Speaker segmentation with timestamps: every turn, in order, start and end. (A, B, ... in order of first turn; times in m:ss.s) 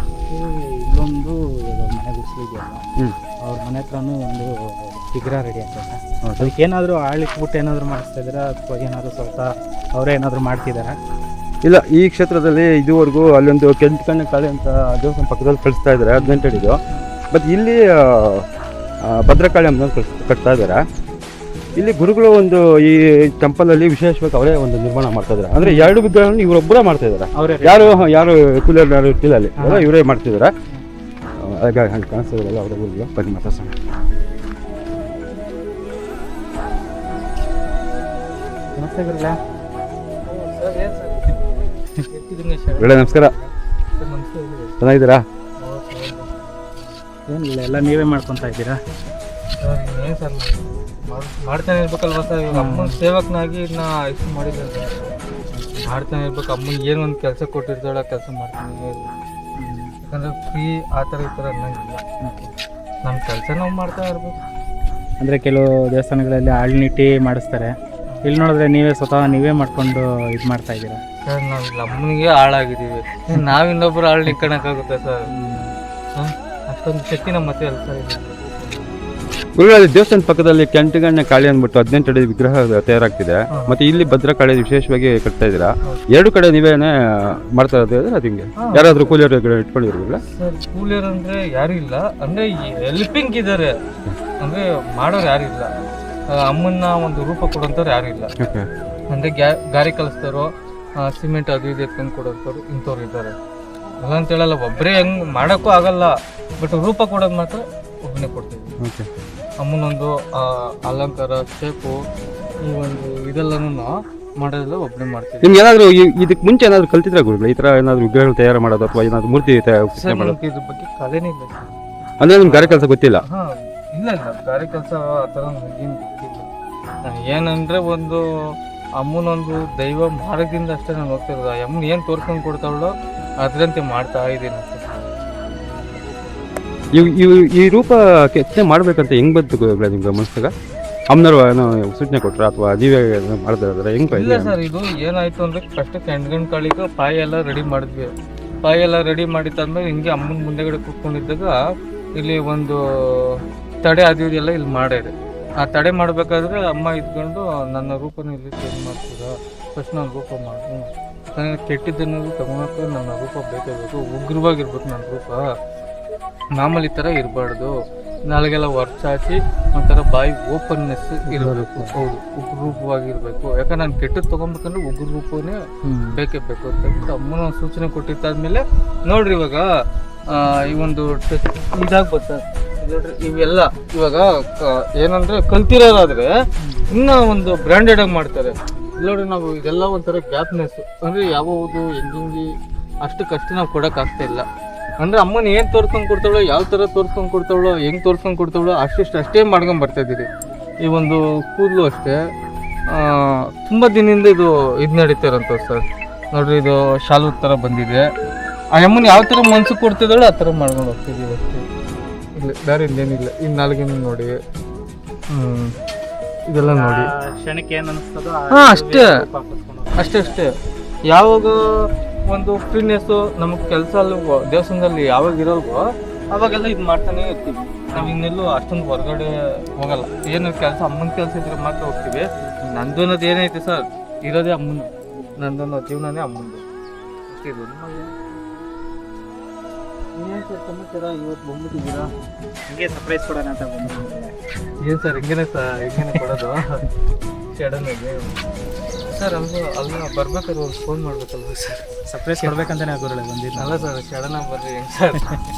0:00.2-0:02.8 A
0:03.5-0:11.0 A
0:06.2-0:06.5 B
0:11.6-0:18.5 B
0:16.2-0:17.1 A
0:19.0-0:20.8 B
0:21.8-0:30.5 B
0:25.6-0:25.9 A
0:27.4-0:28.1 A
0:29.6-0:29.9 A
0:31.4-0:33.7 B
0:38.8-0:39.4 A
0:40.3-0:41.5 C
0:42.1-0:44.7 C
0:42.8-0:43.3 B
0:44.8-0:45.2 B
0:45.6-0:46.9 C
0:47.3-0:48.8 A
0:49.6-0:55.2 C
0:52.5-0:53.0 A
0:55.5-0:55.9 A
0:55.8-0:59.1 C
0:59.6-0:59.9 A
1:00.0-1:02.0 C
1:02.2-1:02.5 A
1:03.0-1:04.4 C
1:05.2-1:11.0 A
1:11.3-1:15.3 C
1:15.3-1:15.8 A
1:16.2-1:18.9 C
1:19.6-1:30.2 B
1:23.5-1:23.8 C
1:28.6-1:29.2 C
1:30.4-1:33.8 C
1:34.4-1:35.7 C
1:36.3-1:38.4 C
1:38.4-1:38.7 B
1:39.1-1:43.4 C
1:44.0-1:48.8 C
1:48.8-1:49.1 B
1:49.6-1:52.0 C
1:52.6-1:55.6 C
1:55.4-2:00.4 B
2:00.0-2:01.8 C
2:02.2-2:03.2 B
2:02.4-2:06.5 C
2:07.0-2:15.1 C
2:16.9-2:20.5 B
2:21.1-2:24.6 B
2:24.1-2:31.6 C
2:32.2-2:45.4 C
2:46.5-2:47.7 C
2:48.3-2:55.6 C
2:51.3-2:52.1 A
2:55.8-2:56.2 A
2:56.1-2:59.7 C
3:00.3-3:06.3 C
3:06.6-3:06.9 A
3:06.9-3:12.5 C
3:13.0-3:14.5 C
3:15.0-3:20.3 C
3:20.8-3:22.2 C
3:22.9-3:28.1 C
3:28.7-3:31.6 C
3:32.4-3:34.4 C
3:35.3-3:35.7 C
3:36.5-3:37.1 C
3:36.7-3:40.4 A
3:38.5-3:39.1 C
3:40.0-3:40.5 C
3:41.1-3:56.6 C
3:55.1-3:55.4 A
3:57.3-3:58.6 C
4:00.2-4:02.1 C
4:02.7-4:04.3 A
4:04.8-4:06.8 C
4:06.0-4:06.3 A
4:07.5-4:08.3 C
4:09.1-4:11.9 C
4:12.1-4:13.9 A
4:13.6-4:15.3 C